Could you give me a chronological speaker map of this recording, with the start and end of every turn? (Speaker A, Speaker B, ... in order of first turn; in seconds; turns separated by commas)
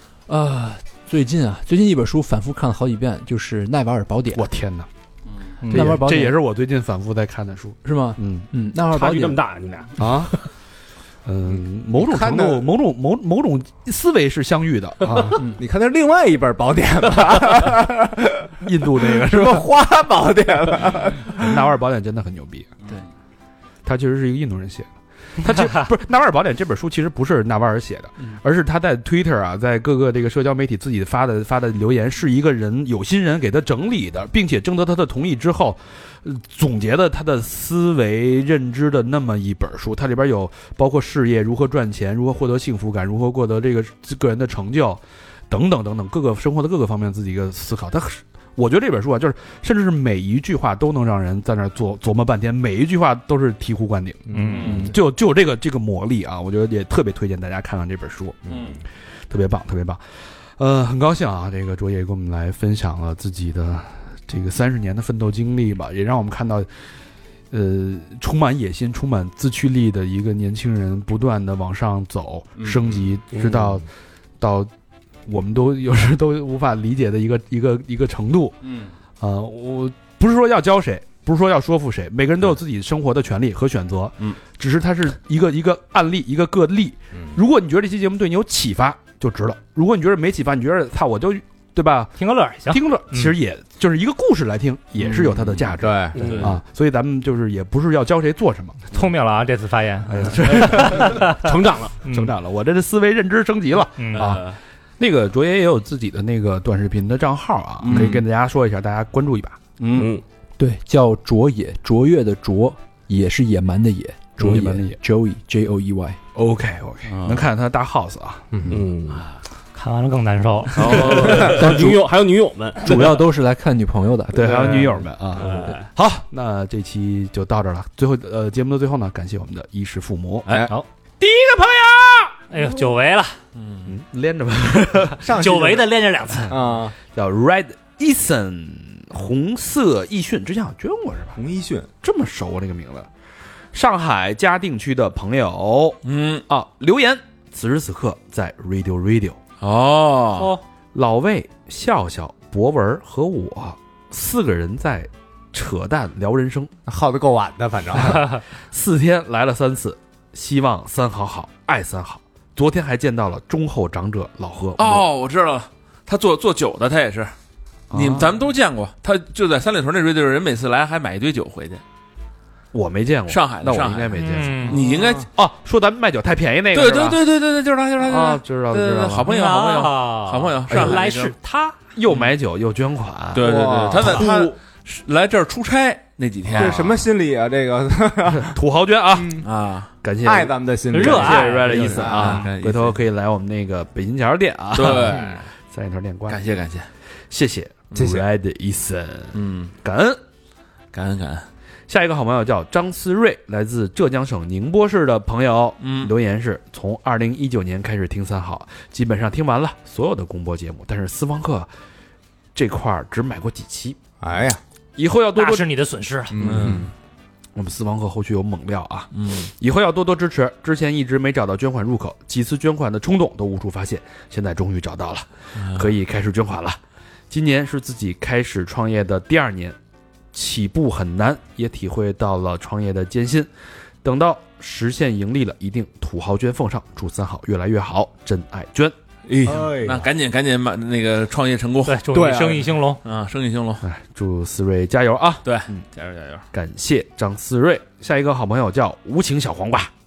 Speaker A: 0.3-4.5, Speaker B: 4.3-4.9, Speaker A: 5.7-6.3, Speaker B: 5.7-8.5, Speaker A: 7.8-9.4, Speaker C: 8.9-10.3, Speaker B: 10.0-10.4, Speaker B: 11.2-15.4, Speaker D: 12.0-12.7, Speaker D: 15.2-21.6, Speaker B: 18.6-19.7, Speaker B: 21.3-22.7, Speaker B: 23.8-58.4, Speaker D: 54.3-54.9, Speaker E: 54.3-54.8, Speaker F: 54.5-54.9, Speaker D: 58.5-58.8, Speaker B: 59.3-60.0, Speaker B: 60.6-66.7, Speaker B: 67.5-73.9, Speaker F: 72.6-73.1, Speaker B: 74.4-74.7, Speaker B: 75.3-78.6, Speaker F: 78.6-78.9, Speaker B: 79.2-92.2, Speaker E: 92.2-93.3, Speaker B: 92.7-98.9, Speaker D: 95.0-96.5, Speaker C: 96.1-96.5, Speaker E: 98.9-102.3, Speaker B: 100.1-101.3, Speaker C: 101.2-102.0, Speaker B: 102.1-109.7, Speaker E: 104.0-104.3, Speaker F: 104.1-104.6, Speaker F: 107.8-108.2, Speaker D: 107.9-108.2, Speaker F: 109.8-110.2, Speaker C: 109.9-110.2, Speaker A: 110.6-116.2, Speaker B: 114.4-115.0, Speaker B: 116.3-118.8, Speaker F: 117.0-117.4, Speaker C: 118.7-119.2, Speaker E: 119.7-121.2, Speaker F: 120.7-121.7, Speaker C: 120.8-123.1, Speaker B: 120.9-121.5, Speaker A: 121.5-122.0, Speaker A: 122.8-124.7, Speaker B: 124.3-130.5, Speaker F: 125.4-125.8, Speaker D: 125.4-125.7, Speaker F: 130.4-130.7, Speaker B: 131.2-132.3, Speaker E: 132.5-133.4, Speaker F: 133.5-133.9, Speaker B: 133.8-135.2, Speaker D: 135.2-135.9, Speaker E: 135.3-136.6, Speaker D: 136.5-136.9, Speaker B: 137.1-141.4, Speaker D: 141.3-141.9, Speaker B: 142.0-143.1, Speaker B: 143.7-149.4, Speaker F: 146.0-146.4, Speaker F: 149.6-150.5, Speaker E: 150.4-150.6, Speaker B: 150.9-156.7, Speaker D: 156.9-158.4, Speaker B: 158.7-165.1, Speaker F: 164.8-167.3, Speaker B: 167.9-168.3, Speaker F: 167.9-171.8, Speaker B: 172.7-174.8, Speaker F: 173.3-175.3, Speaker E: 174.2-174.8, Speaker D: 174.8-175.2, Speaker B: 175.3-177.2, Speaker F: 176.7-181.3, Speaker B: 178.0-179.3, Speaker E: 179.2-181.8, Speaker B: 180.7-181.0, Speaker B: 181.9-184.3, Speaker F: 182.1-182.3, Speaker F: 183.3-187.1, Speaker D: 183.4-184.4, Speaker B: 186.5-186.8, Speaker D: 186.5-188.6, Speaker B: 188.4-189.4, Speaker D: 189.1-189.4, Speaker F: 189.3-189.9, Speaker B: 190.0-196.4, Speaker D: 190.2-192.5, Speaker E: 190.9-191.9, Speaker F: 191.2-193.0, Speaker F: 194.7-195.4, Speaker F: 196.3-196.9, Speaker B: 197.3-200.2, Speaker D: 198.0-198.2, Speaker F: 199.3-199.7, Speaker F: 200.9-201.5, Speaker B: 201.9-211.7, Speaker F: 205.8-206.1, Speaker B: 212.5-214.0, Speaker D: 214.2-214.6, Speaker B: 215.0-215.7, Speaker E: 215.3-216.3, Speaker D: 216.3-216.9, Speaker F: 216.4-216.9, Speaker B: 217.5-226.8, Speaker F: 219.1-219.5, Speaker F: 225.6-225.9, Speaker B: 227.3-229.8, Speaker B: 230.3-233.5, Speaker B: 234.0-238.9, Speaker F: 239.2-242.1, Speaker D: 239.4-240.1, Speaker E: 241.8-243.0, Speaker D: 242.1-242.6, Speaker F: 243.0-243.8, Speaker B: 243.8-245.8, Speaker F: 245.4-246.4, Speaker B: 246.5-249.9